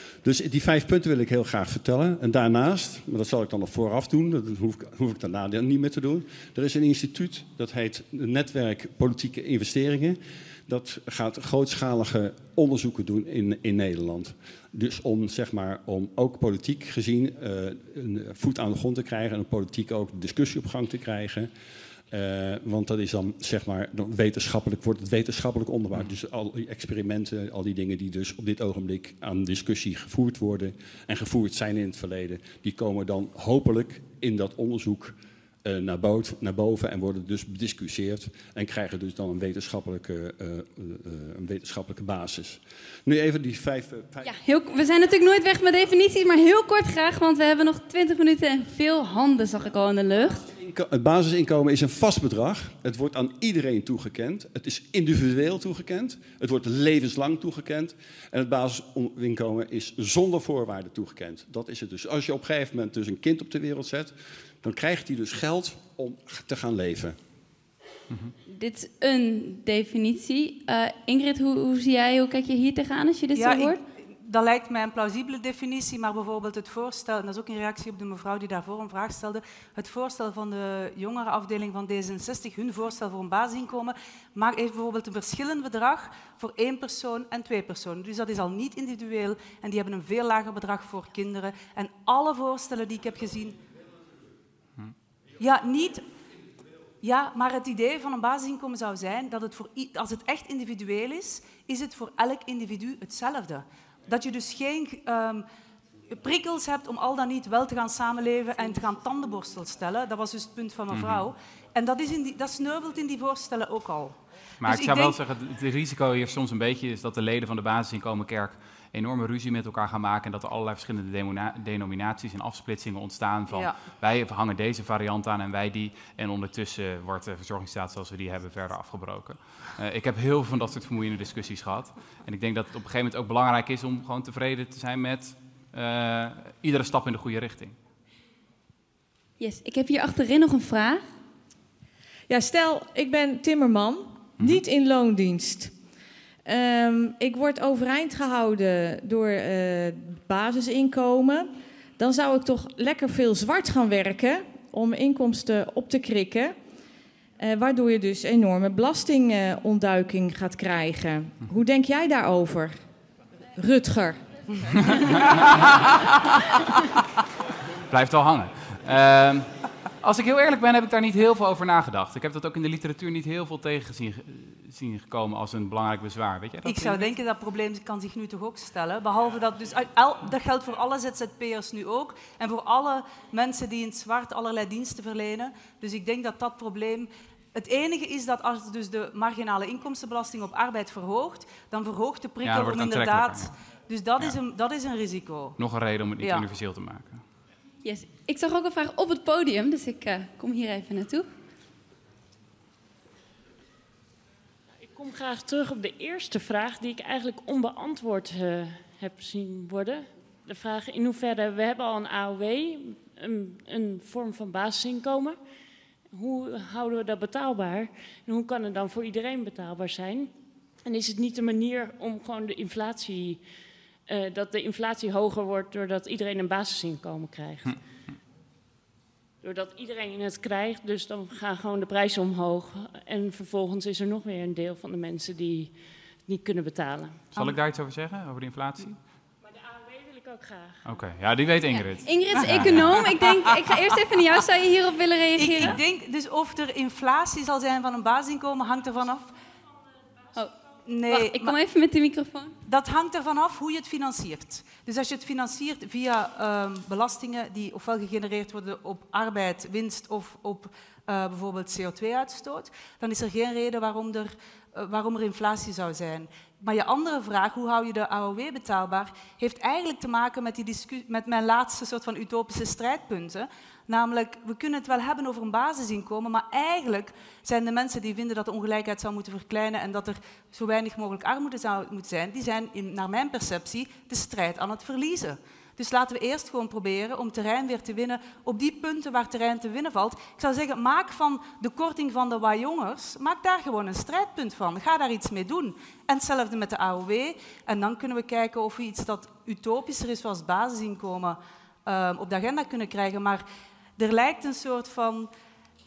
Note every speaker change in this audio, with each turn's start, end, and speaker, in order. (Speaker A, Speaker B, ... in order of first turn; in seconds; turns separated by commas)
Speaker A: 0.2-21.5, Speaker A: 22.1-44.3, Speaker B: 44.2-50.5, Speaker A: 50.5-67.2, Speaker B: 68.5-73.8, Speaker C: 73.3-93.6, Speaker C: 95.4-96.0, Speaker C: 97.0-105.4, Speaker C: 106.1-115.2, Speaker D: 110.9-111.3, Speaker D: 114.6-137.8, Speaker C: 123.5-123.8, Speaker B: 139.4-141.0, Speaker E: 142.3-145.7, Speaker E: 146.4-156.6, Speaker E: 157.4-162.8, Speaker E: 163.6-164.2, Speaker D: 167.9-169.5, Speaker D: 170.0-177.1, Speaker C: 176.6-195.6, Speaker D: 192.4-193.5, Speaker D: 195.6-197.2, Speaker C: 196.2-196.5, Speaker B: 197.8-201.3, Speaker F: 204.8-215.4, Speaker F: 216.1-220.3, Speaker F: 220.8-223.5, Speaker F: 224.1-227.8, Speaker F: 229.4-237.2, Speaker D: 237.3-239.0, Speaker F: 239.5-240.8, Speaker D: 240.8-243.0, Speaker B: 241.9-245.8, Speaker C: 242.3-242.7, Speaker C: 245.4-249.3, Speaker C: 250.9-251.6, Speaker B: 251.1-252.5, Speaker C: 252.7-303.4, Speaker C: 304.0-305.3